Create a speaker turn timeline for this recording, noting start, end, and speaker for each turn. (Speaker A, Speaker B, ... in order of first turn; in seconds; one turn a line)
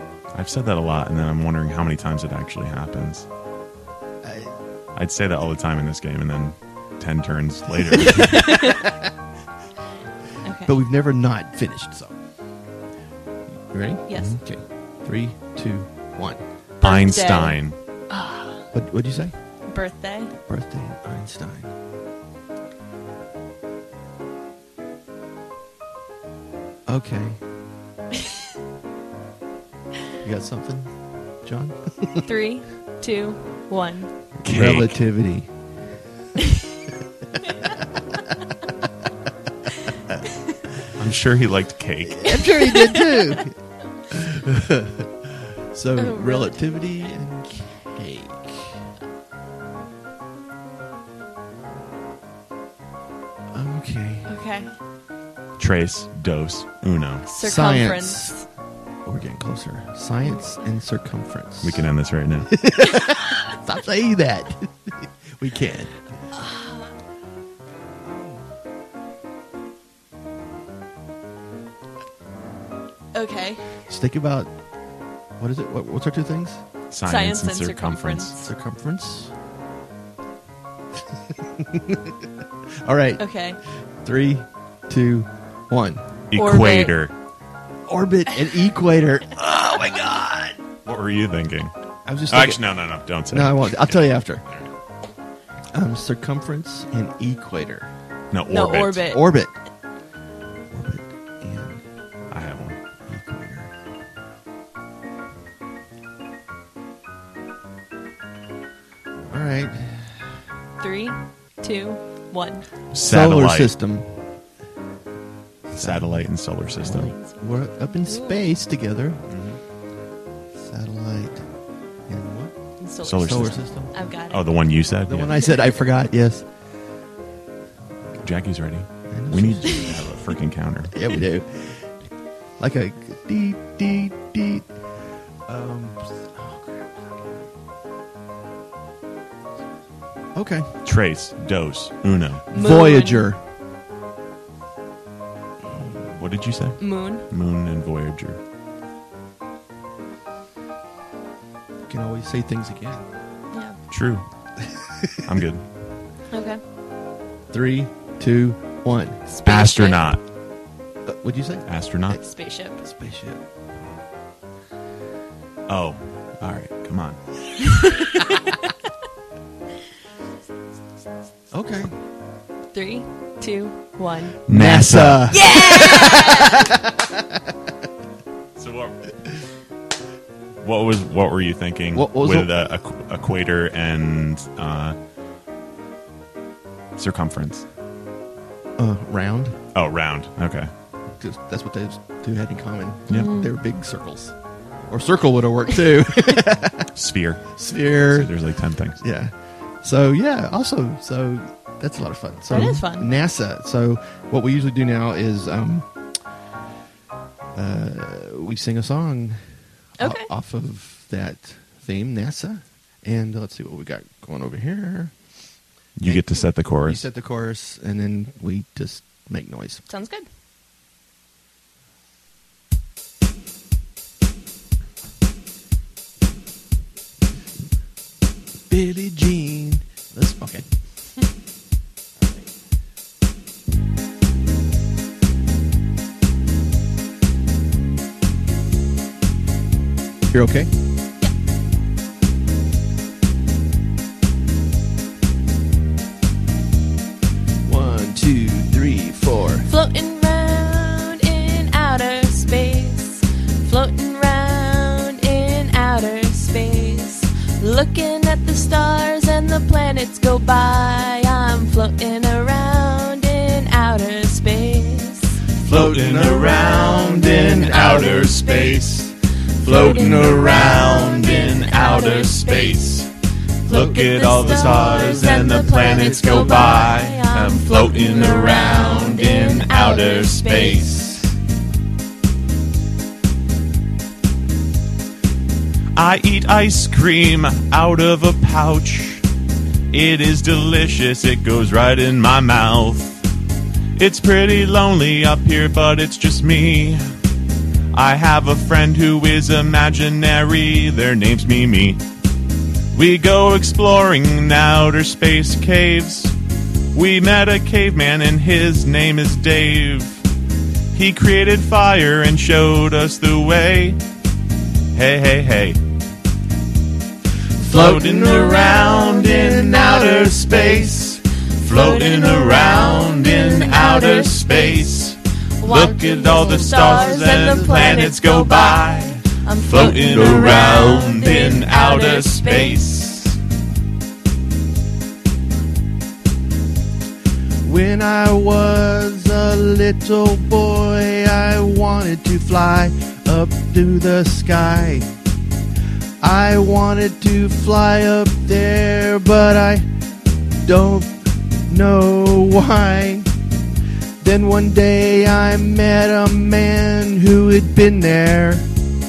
Speaker A: 0.3-3.3
Speaker B: 4.2-4.5
Speaker A: 4.9-8.6
Speaker B: 7.7-9.0
Speaker C: 8.3-8.8
Speaker C: 10.4-10.7
Speaker B: 10.7-12.2
Speaker B: 13.5-16.4
Speaker C: 14.1-14.4
Speaker C: 16.8-17.6
Speaker A: 16.8-17.8
Speaker C: 18.1-18.6
Speaker B: 18.7-19.3
Speaker C: 19.7-20.3
Speaker B: 20.5-21.7
Speaker B: 26.9-27.4
Speaker B: 30.2-32.3
Speaker C: 32.2-34.1
Speaker B: 34.4-35.5
Speaker A: 34.4-35.0
Speaker A: 40.9-42.4
Speaker B: 42.0-43.6
Speaker C: 42.3-43.4
Speaker B: 44.1-48.9
Speaker C: 46.0-47.1
Speaker B: 53.5-54.3
Speaker C: 54.3-54.7
Speaker A: 55.6-57.2
Speaker C: 57.2-58.5
Speaker B: 57.4-58.4
Speaker B: 59.0-61.9
Speaker A: 61.6-62.5
Speaker B: 62.5-66.0
Speaker C: 66.3-66.9
Speaker B: 68.0-68.5
Speaker C: 73.1-73.7
Speaker B: 73.8-74.5
Speaker B: 75.4-76.6
Speaker A: 76.9-78.3
Speaker C: 77.0-78.5
Speaker B: 78.4-79.3
Speaker B: 81.1-82.2
Speaker B: 82.8-83.3
Speaker C: 83.2-83.6
Speaker B: 84.0-86.1
Speaker A: 86.3-87.1
Speaker C: 86.3-86.9
Speaker B: 87.9-90.6
Speaker A: 90.8-91.7
Speaker B: 92.0-92.7
Speaker A: 92.3-94.7
Speaker B: 93.3-94.4
Speaker B: 95.7-97.9
Speaker A: 98.3-99.1
Speaker C: 98.5-99.2
Speaker B: 99.1-99.5
Speaker B: 100.7-101.8
Speaker A: 102.3-102.8
Speaker B: 103.0-103.7
Speaker B: 109.3-110.2
Speaker C: 110.8-112.7
Speaker A: 112.9-113.7
Speaker B: 113.0-114.1
Speaker B: 115.7-116.3
Speaker A: 115.8-117.1
Speaker C: 116.8-118.5
Speaker B: 116.8-119.2
Speaker A: 119.3-119.6
Speaker B: 120.5-121.5
Speaker B: 122.1-122.5
Speaker C: 122.8-124.5
Speaker A: 123.0-123.6
Speaker B: 123.2-123.9
Speaker A: 124.3-125.4
Speaker B: 125.1-126.5
Speaker A: 128.2-131.0
Speaker B: 129.1-130.0
Speaker B: 130.9-131.9
Speaker B: 132.6-134.7
Speaker B: 135.5-137.4
Speaker B: 140.3-140.7
Speaker A: 140.8-142.4
Speaker B: 142.5-143.4
Speaker C: 142.5-143.3
Speaker A: 146.1-148.4
Speaker C: 146.8-147.2
Speaker B: 151.9-153.1
Speaker C: 153.5-153.8
Speaker A: 153.9-154.2
Speaker B: 154.6-155.2
Speaker A: 155.2-155.7
Speaker C: 156.3-156.6
Speaker B: 157.5-159.2
Speaker C: 159.3-160.1
Speaker A: 159.4-160.2
Speaker B: 161.1-161.7
Speaker A: 161.7-162.2
Speaker C: 162.1-162.8
Speaker B: 162.8-163.4
Speaker A: 165.7-167.2
Speaker C: 167.6-168.7
Speaker B: 171.5-171.9
Speaker C: 172.7-174.4
Speaker A: 174.5-175.3
Speaker B: 174.5-177.2
Speaker C: 175.3-176.7
Speaker A: 178.6-179.4
Speaker A: 180.6-184.9
Speaker B: 181.9-182.5
Speaker A: 187.0-187.7
Speaker B: 188.8-189.6
Speaker A: 189.7-190.7
Speaker B: 191.2-194.3
Speaker C: 193.1-193.5
Speaker B: 194.9-196.9
Speaker A: 196.9-199.0
Speaker B: 197.6-198.3
Speaker B: 199.0-205.9
Speaker C: 202.5-203.1
Speaker B: 207.5-209.4
Speaker B: 210.0-215.2
Speaker C: 210.0-210.3
Speaker A: 215.9-217.0
Speaker B: 216.0-219.8
Speaker C: 219.9-220.2
Speaker B: 228.7-230.7
Speaker B: 240.3-240.7
Speaker B: 247.6-249.7
Speaker C: 249.6-265.4
Speaker A: 265.6-269.1
Speaker B: 265.6-269.0
Speaker C: 267.7-268.8
Speaker C: 269.6-272.9
Speaker A: 269.6-273.1
Speaker B: 269.7-270.9
Speaker C: 273.6-281.1
Speaker A: 273.6-281.3
Speaker B: 274.8-276.9
Speaker A: 285.9-289.2
Speaker A: 289.9-293.2
Speaker A: 293.9-297.0
Speaker A: 297.9-302.0
Speaker A: 302.9-306.3
Speaker A: 306.9-310.2
Speaker A: 310.9-314.0
Speaker A: 314.9-315.8
Speaker B: 317.6-321.2
Speaker A: 317.6-333.4
Speaker C: 321.6-324.9
Speaker C: 325.6-333.1
Speaker B: 326.7-328.0
Speaker B: 329.8-330.8
Speaker B: 337.6-345.1
Speaker B: 346.2-349.9
Speaker B: 350.6-353.3
Speaker B: 354.2-358.7